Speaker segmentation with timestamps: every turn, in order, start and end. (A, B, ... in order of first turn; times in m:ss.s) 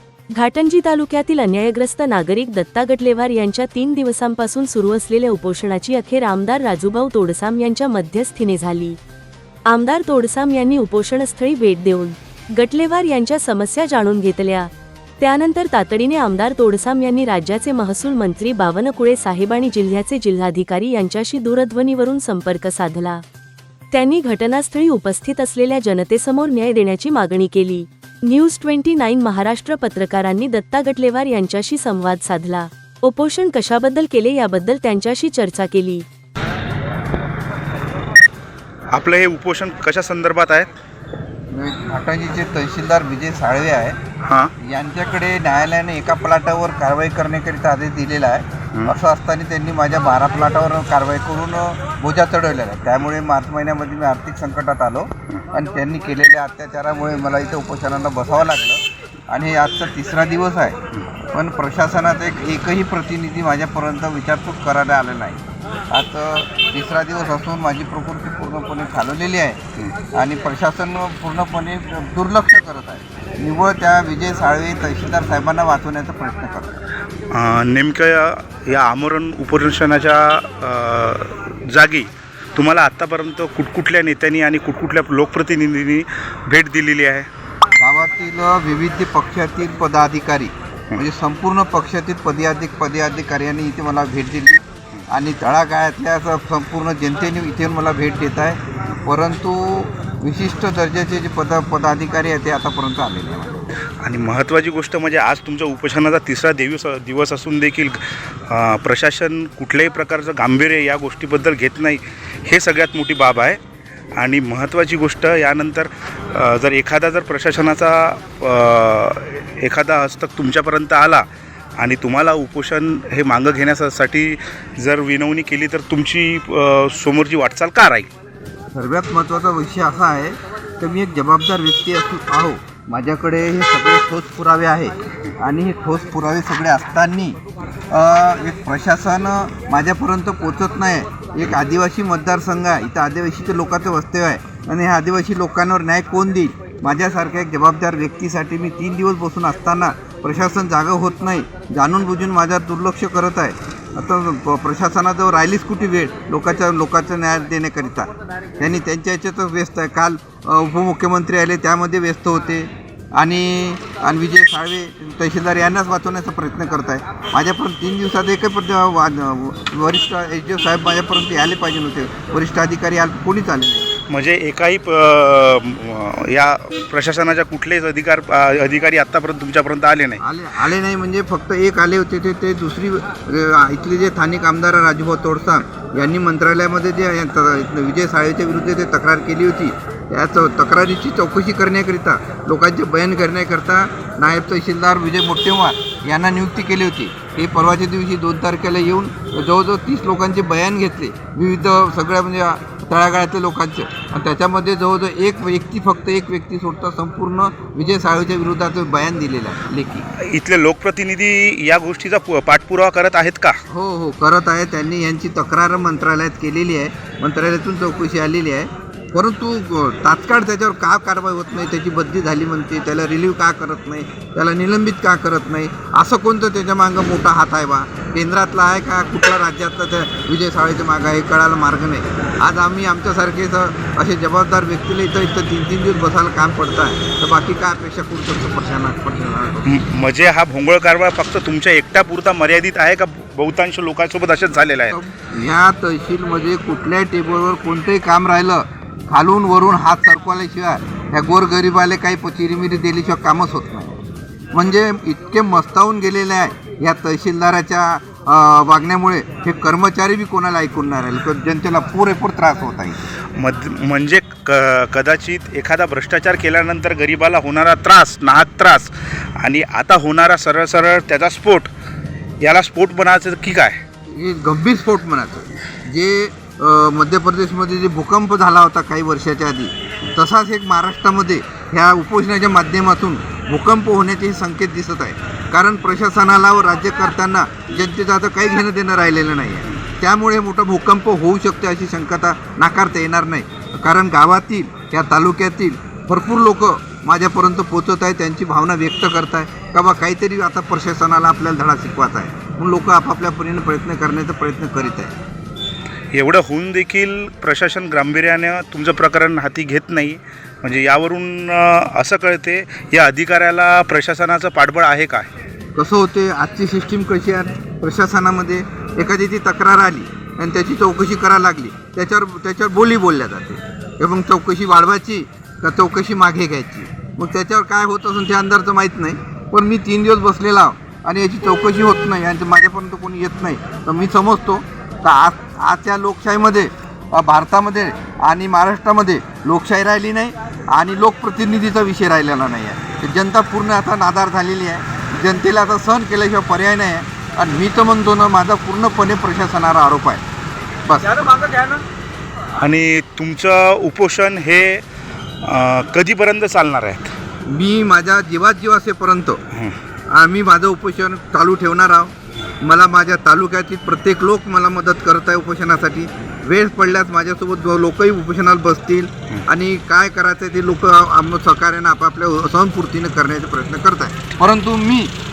0:00.3-0:09.0 A
0:09.7-0:23.2 A
0:23.9-0:36.0 A
0:38.9-0:40.7 B
0:41.5-0:44.0 C
0:44.2-0:44.5 B
0:44.6-1:16.8 C
1:17.3-1:27.3 B
1:27.8-1:43.6 C
1:44.0-1:53.6 B
1:54.2-2:01.2 B
2:01.8-2:08.1 B
2:08.7-2:17.4 C
2:17.9-2:53.9 C
2:54.1-3:00.2 B
3:00.2-3:30.1 C
3:30.2-3:33.6 B
3:33.7-3:59.7 C
3:59.7-4:05.0 B
4:04.9-4:14.0 C
4:14.5-4:23.0 C
4:23.4-4:31.7 B
4:32.4-4:33.8 B
4:34.1-5:05.1 C
5:06.1-5:15.3 B
5:15.8-5:50.2 C
5:50.8-5:51.3 C
5:51.2-5:51.8 B
5:52.6-5:54.8 B
5:55.4-5:57.1 B
5:57.5-5:59.4 C
6:00.1-6:15.1 C